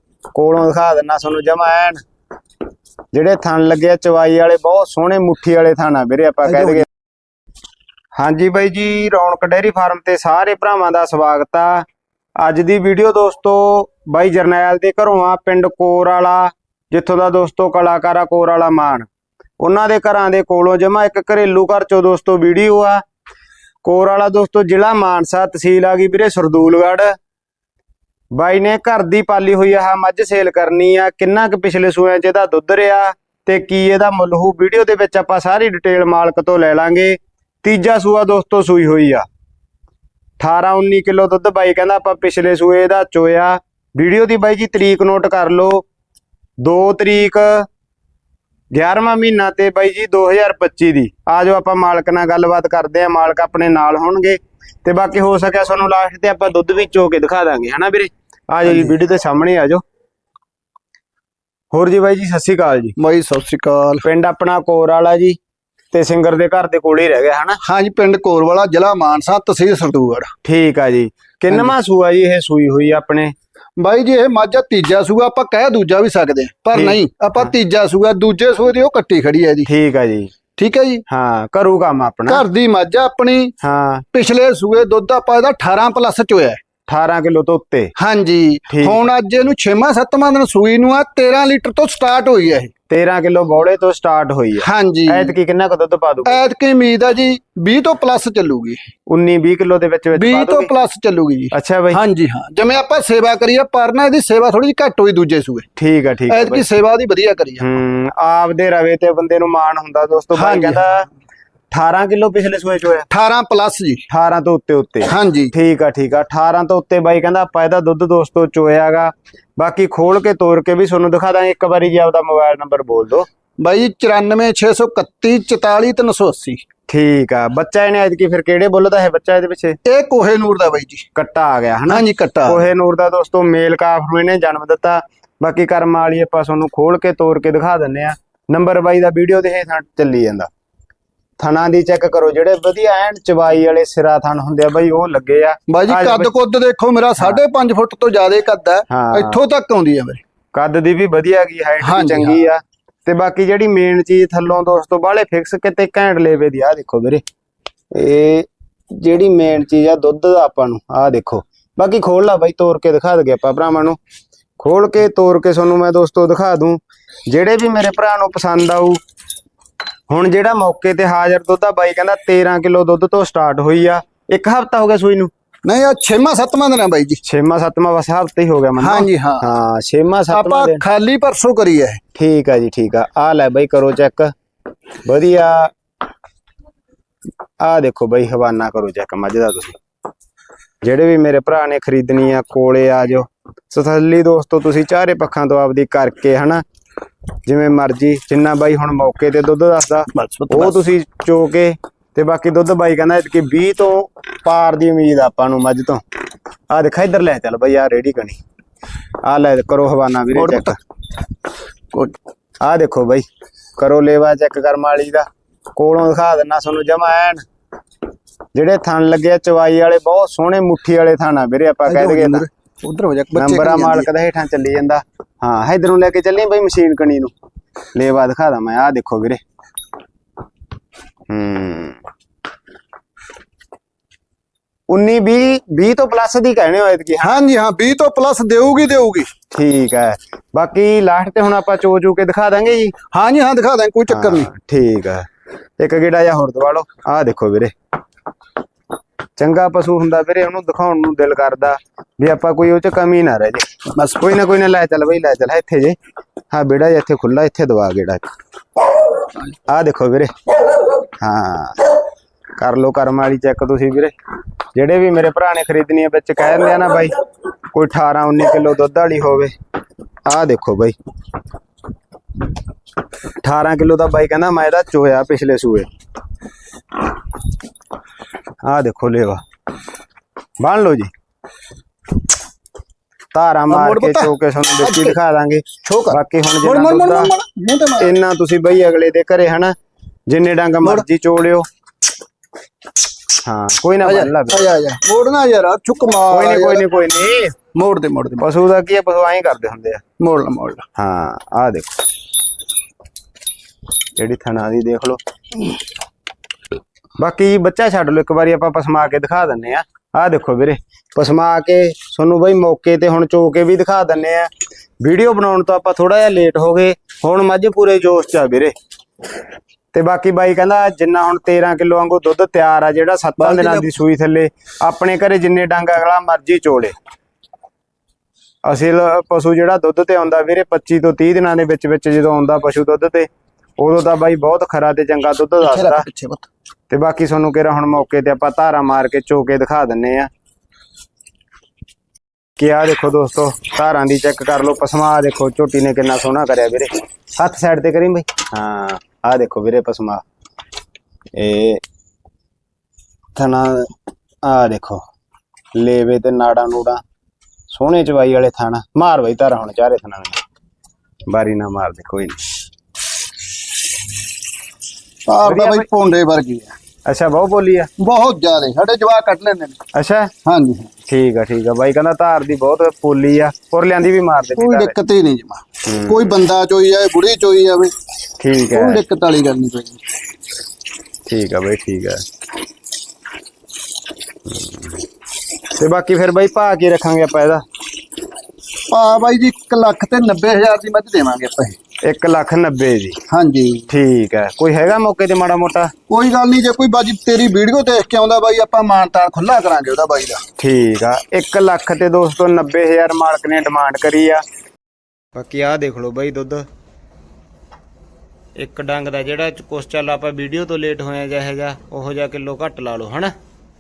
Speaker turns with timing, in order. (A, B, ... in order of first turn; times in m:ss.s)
0:00.3-0:02.0 A
0:03.1-0:06.9 A
0:06.5-0:06.8 B
0:08.2-0:11.8 A
0:12.4-0:19.1 A
0:19.6-0:23.0 A
0:23.8-0:27.1 A
0:28.3-0:39.2 A
0:40.4-0:45.8 A
0:46.6-0:47.7 A
0:48.7-0:59.8 A
0:58.7-0:59.0 B
1:01.7-1:03.0 A
1:03.0-1:04.1 B
1:04.0-1:05.4 A
1:05.9-1:07.6 A
1:07.6-1:10.3 B
1:10.4-1:13.3 A
1:13.8-1:19.7 B
1:16.7-1:17.0 A
1:19.7-1:20.3 A
1:20.6-1:21.0 B
1:21.1-1:22.4 A
1:22.3-1:23.5 B
1:23.6-1:24.0 A
1:24.1-1:26.6 B
1:26.9-1:27.9 A
1:28.0-1:32.7 B
1:28.7-1:29.0 A
1:32.9-1:36.4 A
1:34.6-1:35.4 B
1:36.2-1:38.8 B
1:39.1-1:40.7 A
1:40.1-1:45.7 B
1:41.5-1:42.0 A
1:45.8-1:46.6 A
1:46.3-1:47.6 B
1:47.6-1:51.1 A
1:50.3-1:50.8 B
1:51.7-1:53.1 A
1:53.1-1:54.0 B
1:54.1-2:03.3 A
1:55.0-1:55.5 B
2:03.6-2:06.6 B
2:06.9-2:09.8 A
2:09.9-2:11.1 B
2:11.2-2:20.5 A
2:11.9-2:12.7 B
2:21.4-2:26.3 A
2:25.7-2:30.2 B
2:28.9-2:29.4 A
2:30.5-2:37.2 A
2:31.8-2:32.4 B
2:37.9-2:44.0 A
2:44.6-2:49.0 A
2:50.1-2:55.3 A
2:55.6-2:57.2 B
2:57.2-3:00.8 A
2:58.8-2:59.5 B
3:00.3-3:02.0 B
3:02.2-3:04.3 A
3:05.0-3:05.7 A
3:07.6-3:09.8 A
3:10.8-3:16.6 A
3:17.5-3:26.0 A
3:20.1-3:20.8 B
3:26.7-3:28.4 A
3:29.2-3:30.8 A
3:30.3-3:30.8 B
3:32.6-3:33.2 A
3:33.8-3:37.4 A
3:38.6-3:42.5 A
3:41.9-3:44.1 B
3:43.4-3:47.3 A
3:47.9-3:49.4 A
3:51.3-3:52.0 A
3:54.9-3:57.3 A
3:57.2-3:59.3 B
3:59.5-4:02.9 A
4:03.1-4:04.5 B
4:04.1-4:05.3 A
4:05.8-4:07.7 A
4:09.4-4:13.7 A
4:14.0-4:14.4 B
4:14.2-4:16.0 A
4:16.5-4:18.3 A
4:19.7-4:22.0 A
4:22.6-4:24.1 A
4:24.8-4:27.2 A
4:27.7-4:29.5 A
4:30.3-4:31.0 A
4:33.4-4:35.9 A
4:38.6-4:39.4 A
4:40.6-4:41.1 A
4:43.3-4:47.3 A
4:43.7-4:45.2 B
4:45.8-4:48.1 B
4:48.0-4:49.7 A
4:50.3-4:51.7 A
4:53.4-4:54.7 A
4:54.0-4:56.9 B
4:56.3-4:57.6 A
4:57.7-4:58.5 B
4:58.4-5:00.0 A
5:00.2-5:00.8 B
5:01.0-5:01.9 A
5:04.2-5:05.2 A
5:07.2-5:14.5 A
5:15.0-5:18.7 A
5:19.9-5:26.9 A
5:23.4-5:23.9 B
5:28.6-5:33.3 A
5:33.8-5:36.1 A
5:35.6-5:36.5 B
5:36.9-5:40.3 A
5:42.6-5:50.2 A
5:51.4-5:51.8 A
5:53.4-5:53.9 A
5:54.4-5:55.0 A
5:55.7-5:57.0 A
5:57.7-6:00.4 A
6:01.3-6:02.4 A
6:05.3-6:06.8 B
6:05.4-6:05.9 A
6:07.1-6:07.9 A
6:08.0-6:09.8 B
6:09.9-6:10.3 A
6:10.4-6:10.9 B
6:11.1-6:14.9 A
6:14.6-6:17.9 B
6:15.9-6:16.3 A
6:18.4-6:19.0 A
6:18.7-6:20.0 B
6:21.3-6:22.2 A
6:24.5-6:24.9 A
6:25.8-6:27.6 A
6:28.9-6:31.8 B
6:32.0-6:33.2 A
6:33.3-6:33.9 B
6:33.9-6:35.9 A
6:36.1-6:40.4 B
6:40.6-6:44.4 A
6:45.4-6:46.6 A
6:48.6-6:53.3 A